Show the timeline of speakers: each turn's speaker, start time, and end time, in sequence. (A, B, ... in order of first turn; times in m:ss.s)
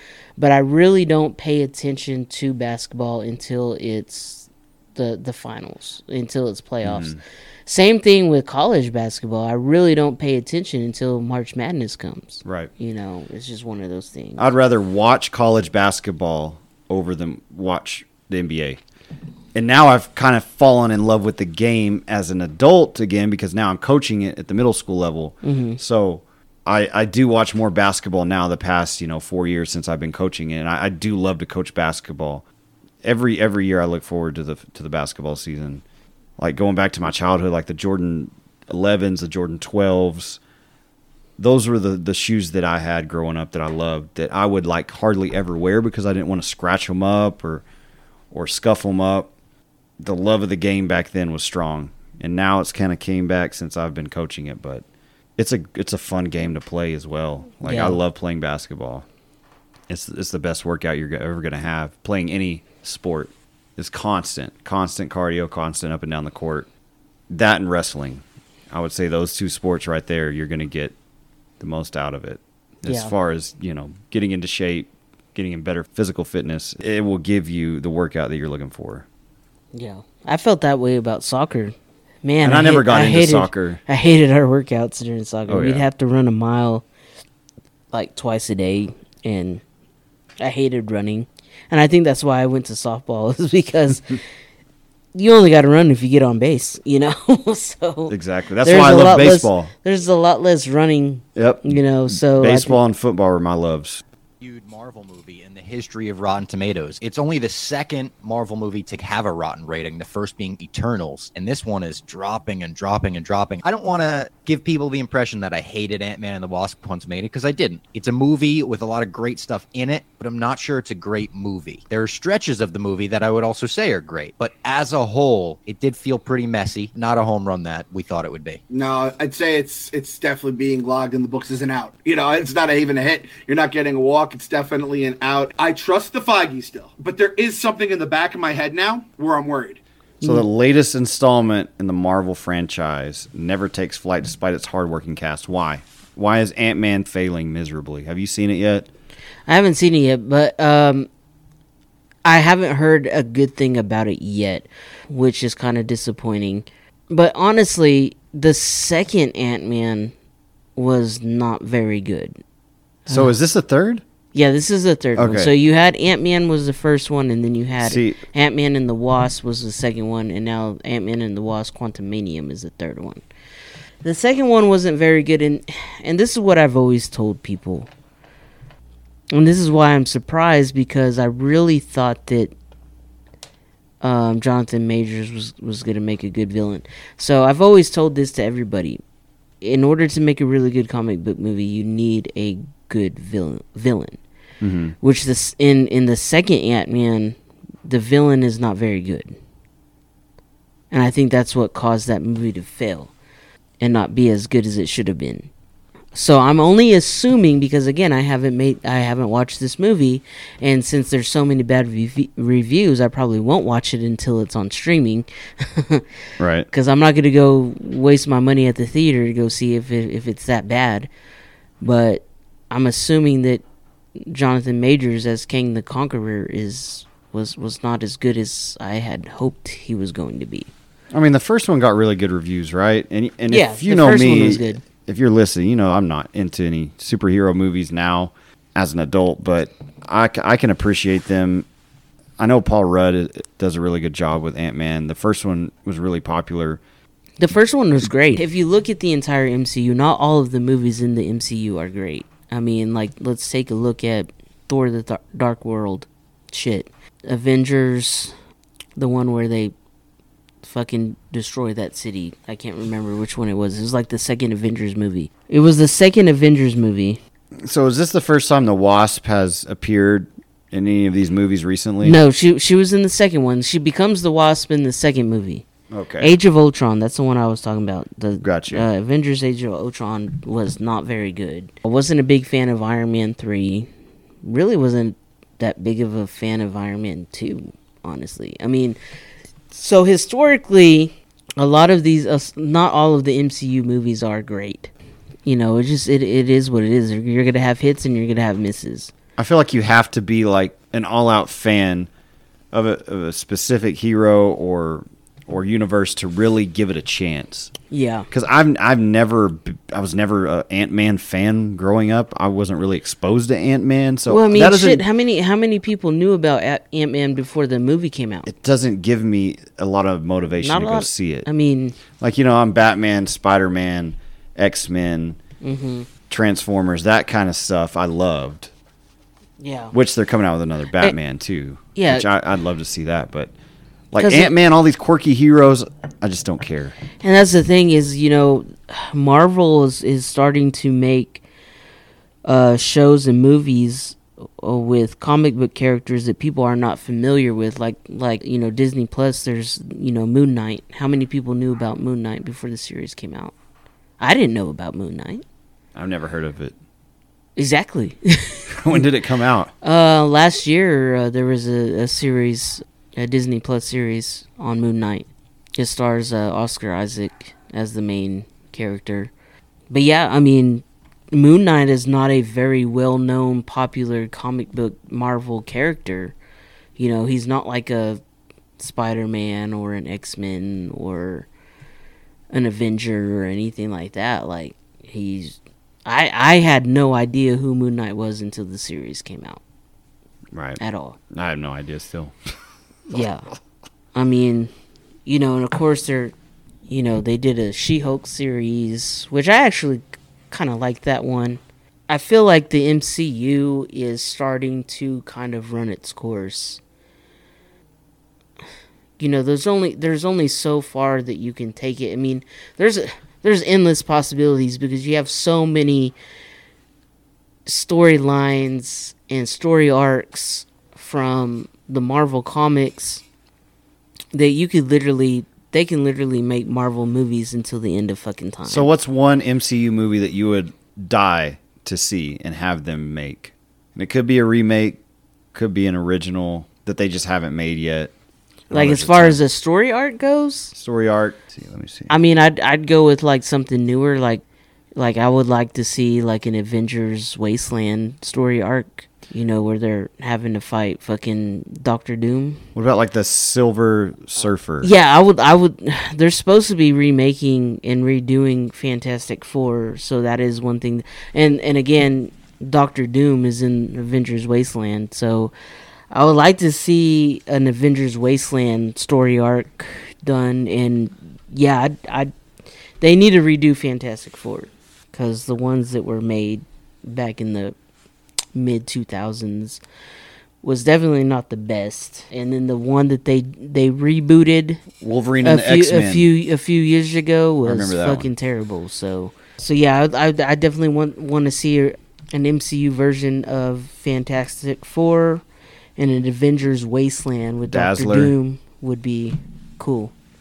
0:00.4-0:14.4 A
0:06.8-0:07.2 B
0:12.4-0:12.7 B
0:14.4-0:18.8 B
0:19.5-0:32.4 B
0:25.4-0:25.8 A
0:33.0-0:35.8 B
0:36.4-0:40.4 B
0:41.4-0:47.6 B
0:48.3-0:49.3 B
0:50.0-0:54.8 B
0:55.4-0:59.0 B
0:57.6-0:58.0 A
0:59.9-1:06.7 B
1:07.3-1:10.9 B
1:11.6-1:19.0 B
1:12.8-1:13.1 A
1:19.7-1:26.8 A
1:22.4-1:23.8 B
1:25.5-1:25.8 B
1:27.9-1:29.6 A
1:30.4-1:34.2 A
1:35.1-1:42.8 A
1:38.1-1:39.7 B
1:41.4-1:44.0 B
1:44.4-2:08.6 C
2:08.7-2:19.8 D
2:20.2-2:20.4 A
2:20.2-2:28.9 B
2:29.5-2:31.1 A
2:32.2-2:40.1 A
2:40.8-2:42.4 A
2:43.1-2:44.0 B
2:44.3-2:53.2 A
2:45.2-2:45.5 B
2:47.8-2:48.2 B
2:54.0-2:57.9 A
2:59.3-3:02.5 A
3:04.0-3:09.0 A
3:09.6-3:14.2 A
3:14.6-3:14.9 B
3:15.0-3:19.4 A
3:20.9-3:23.1 A
3:23.8-3:25.5 A
3:26.1-3:36.0 A
3:36.4-3:36.7 B
3:36.7-3:41.1 A
3:41.8-3:43.6 A
3:44.2-3:50.7 A
3:51.1-4:01.7 B
3:53.5-3:54.8 A
4:02.4-4:06.8 B
4:07.4-4:18.3 A
4:19.0-4:19.7 A
4:20.6-4:27.2 A
4:27.6-4:32.2 B
4:32.0-4:35.6 A
4:35.9-4:36.3 B
4:36.2-4:43.9 A
4:38.4-4:38.9 B
4:44.4-4:49.0 A
4:49.7-4:54.9 A
4:55.4-4:59.1 A
4:59.4-5:02.1 B
5:02.7-5:07.7 B
5:07.9-5:08.3 A
5:08.3-5:15.0 B
5:14.3-5:18.5 A
5:18.4-5:21.5 B
5:20.6-5:22.0 A
5:22.1-5:25.4 B
5:25.6-5:26.1 A
5:26.3-5:28.7 B
5:29.6-5:29.9 A
5:29.9-5:33.5 B
5:31.9-5:32.3 A
5:34.1-5:36.9 B
5:34.2-5:34.5 A
5:37.2-5:41.4 A
5:42.4-5:53.5 A
5:54.2-5:55.4 A
5:55.9-5:56.8 B
5:57.6-5:59.0 A
5:58.7-5:59.7 B
5:59.8-6:09.3 A
6:09.9-6:16.3 A
6:17.0-6:18.2 A
6:18.8-6:21.5 A
6:22.5-6:29.6 A
6:30.5-6:30.8 B
6:30.8-6:31.2 A
6:31.3-6:32.4 B
6:33.1-6:33.5 A
6:34.1-6:34.7 A
6:35.2-6:36.3 A
6:36.9-6:46.8 A
6:49.2-6:56.2 A
6:57.6-7:03.2 A
7:04.3-7:08.9 A
7:08.7-7:15.0 B
7:15.5-7:18.1 B
7:18.7-7:20.7 A
7:18.7-7:19.4 B
7:20.7-7:22.1 B
7:22.1-7:24.4 A
7:25.0-7:32.6 A
7:32.7-7:34.9 B
7:34.8-7:45.5 A
7:46.1-7:52.3 A
7:53.0-7:57.7 A
7:58.5-7:59.8 A
8:00.6-8:04.8 A
8:05.0-8:06.3 B
8:05.4-8:15.4 A
8:07.6-8:08.3 B
8:16.0-8:20.1 A
8:17.7-8:18.3 B